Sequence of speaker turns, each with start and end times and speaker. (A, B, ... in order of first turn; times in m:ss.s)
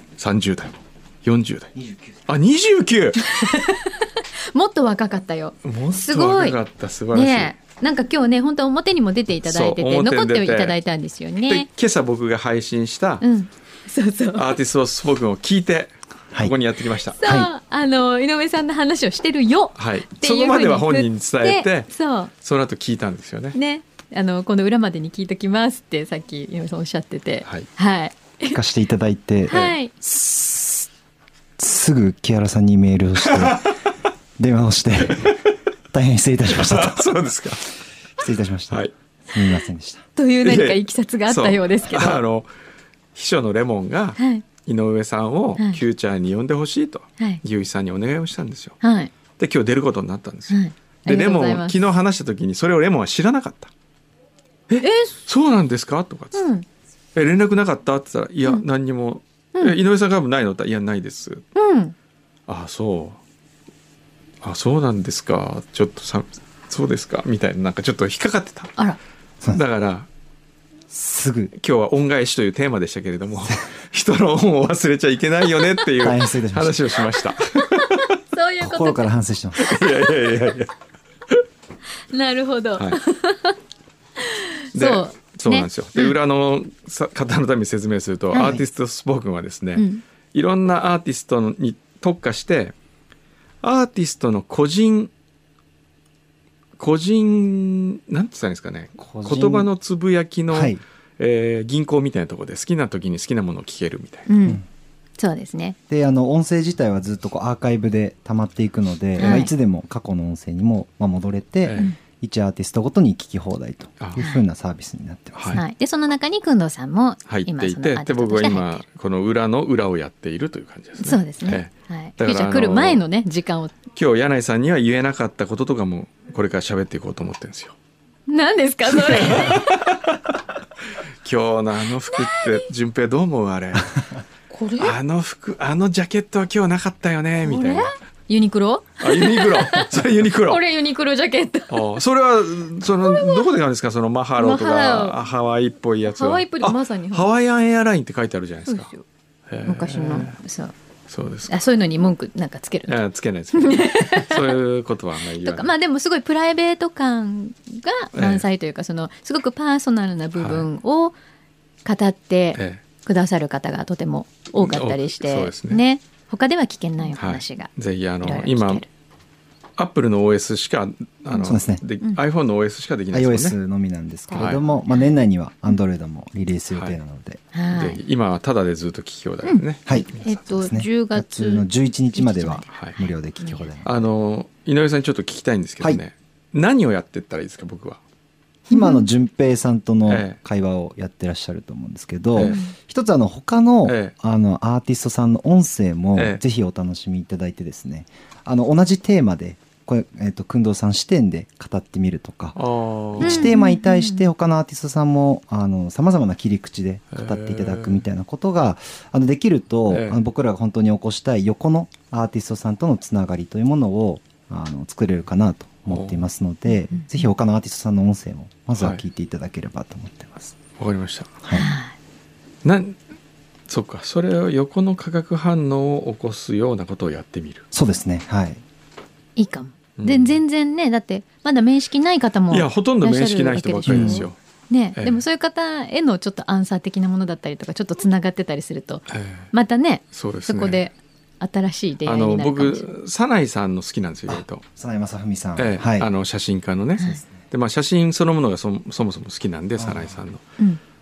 0:00.2-0:01.7 A
0:01.8-0:02.2 B
0:02.3-0:03.2 A
0:03.2-0:06.6 C
0:05.6-0:07.5 A
0:07.1-0:11.7 C
0:09.4-0:10.8 A
0:11.5-0:13.2 A
0:13.2-0:14.6 C
0:14.4-0:17.2 A
0:17.2-0:22.3 C
0:17.2-0:17.5 B
0:19.8-0:23.6 A
0:23.5-0:28.6 C
0:28.5-0:30.8 B
0:29.5-0:29.9 C
0:29.5-0:30.2 A
0:31.6-0:33.7 B
0:33.4-0:33.6 A
0:34.4-0:37.3 B
0:36.5-0:37.7 A
0:38.2-0:40.0 B
0:40.2-0:42.2 C
0:40.4-0:42.5 A
0:43.2-0:48.8 A
0:44.2-0:44.4 C
0:48.8-0:49.1 C
0:49.4-0:53.7 A
0:50.5-0:51.8 C
0:54.7-0:56.4 A
0:54.8-0:55.2 C
0:56.3-0:56.6 C
0:57.2-1:01.4 A
1:01.6-1:02.0 C
1:02.5-1:03.2 A
1:04.4-1:08.7 A
1:09.5-1:10.1 A
1:10.9-1:11.5 B
1:11.6-1:18.0 A
1:16.0-1:17.0 B
1:17.7-1:19.0 C
1:18.6-1:19.8 B
1:19.6-1:20.7 A
1:22.1-1:23.6 C
1:24.2-1:26.2 C
1:24.7-1:32.7 A
1:28.3-1:28.6 C
1:29.8-1:30.0 C
1:33.6-1:35.1 A
1:36.8-1:44.3 A
1:39.0-1:39.7 B
1:40.5-1:40.8 B
1:44.3-1:44.6 C
1:45.2-1:45.8 C
1:45.9-1:55.6 B
1:49.2-1:49.5 C
1:54.2-1:54.4 C
1:55.4-1:55.6 A
1:55.5-1:58.8 C
1:57.3-2:03.0 A
2:01.0-2:03.8 C
2:04.0-2:07.8 A
2:08.3-2:09.8 C
2:09.0-2:10.2 A
2:11.2-2:14.0 A
2:12.1-2:12.7 C
2:14.5-2:15.0 C
2:14.8-2:17.9 A
2:17.4-2:19.9 C
2:19.0-2:20.6 A
2:20.4-2:21.9 C
2:21.7-2:28.9 A
2:23.0-2:23.5 C
2:24.4-2:25.2 C
2:26.1-2:27.3 C
2:28.7-2:29.0 C
2:29.5-2:30.4 A
2:29.6-2:30.7 C
2:31.1-2:31.6 A
2:31.5-2:33.0 C
2:32.9-2:35.7 A
2:33.5-2:34.6 C
2:35.4-2:41.2 C
2:38.2-2:38.4 A
2:40.4-2:40.7 A
2:41.8-2:47.7 C
2:42.6-2:42.8 A
2:44.6-2:45.8 A
2:47.2-2:48.8 A
2:48.2-2:48.9 C
2:49.8-2:53.6 A
2:51.3-2:51.8 B
2:53.1-2:57.4 B
2:54.3-2:55.1 C
2:54.4-2:54.6 A
2:57.5-2:58.0 C
2:57.7-3:00.4 A
2:59.4-3:03.7 C
2:59.9-3:04.0 B
3:03.8-3:08.0 A
3:08.7-3:09.1 C
3:08.7-3:22.6 B
3:10.1-3:10.4 A
3:12.4-3:12.7 C
3:13.9-3:14.1 A
3:22.6-3:23.5 A
3:23.2-3:40.6 B
3:23.2-3:24.3 C
3:27.1-3:28.0 A
3:29.9-3:30.2 A
3:35.9-3:36.2 A
3:36.7-3:37.1 C
3:40.8-3:41.3 A
3:41.4-3:41.7 B
3:41.5-3:41.9 C
3:42.6-3:43.0 A
3:43.7-3:47.7 A
3:47.7-3:48.6 B
3:49.4-4:02.9 C
3:50.0-3:50.4 A
3:52.5-3:54.4 A
3:53.9-3:54.2 B
3:55.0-3:55.2 A
3:59.1-3:59.5 A
4:00.1-4:00.8 A
4:02.1-4:04.6 A
4:04.3-4:06.1 B
4:05.6-4:10.4 A
4:07.1-4:07.5 B
4:09.8-4:10.2 B